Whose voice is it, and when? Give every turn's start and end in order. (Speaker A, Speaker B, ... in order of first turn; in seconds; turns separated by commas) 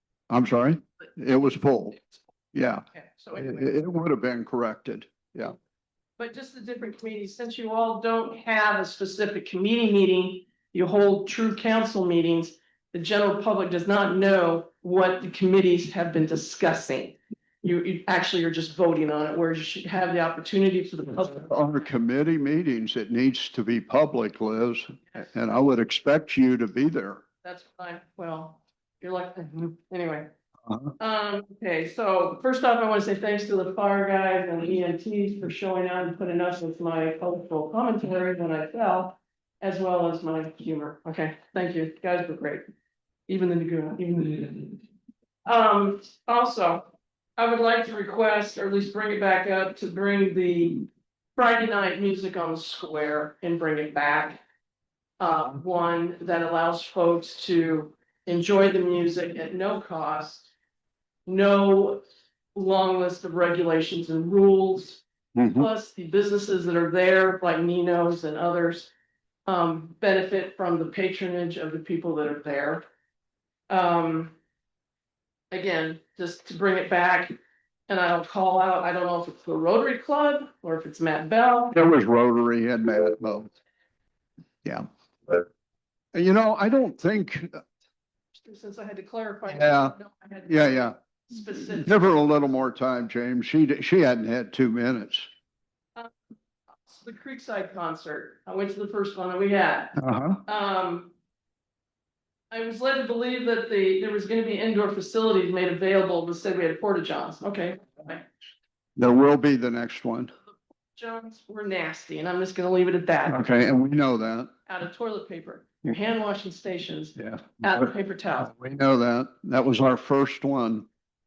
Speaker A: 0.3-2.0, Speaker A: 2.5-2.8, Speaker B: 2.9-3.8, Speaker A: 3.4-5.5, Speaker B: 6.2-21.5, Speaker A: 21.3-27.2, Speaker B: 27.4-30.3, Speaker B: 31.0-42.7, Speaker B: 43.3-44.8, Speaker B: 45.5-54.4, Speaker B: 55.2-60.5, Speaker B: 61.3-62.0, Speaker B: 62.5-65.0, Speaker A: 65.4-65.7, Speaker B: 65.5-68.9, Speaker B: 69.5-72.8, Speaker B: 73.7-74.3, Speaker B: 75.5-77.3, Speaker B: 77.9-81.8, Speaker A: 81.7-83.5, Speaker A: 84.7-85.4, Speaker A: 86.1-87.6, Speaker B: 88.3-92.0, Speaker A: 89.5-90.0, Speaker A: 90.5-91.0, Speaker A: 91.7-95.3, Speaker B: 96.8-100.0, Speaker A: 100.0-100.4, Speaker B: 100.5-101.1, Speaker B: 102.5-108.2, Speaker A: 109.0-110.3, Speaker B: 111.0-113.4, Speaker A: 113.3-114.5, Speaker B: 114.7-118.5, Speaker A: 117.2-120.9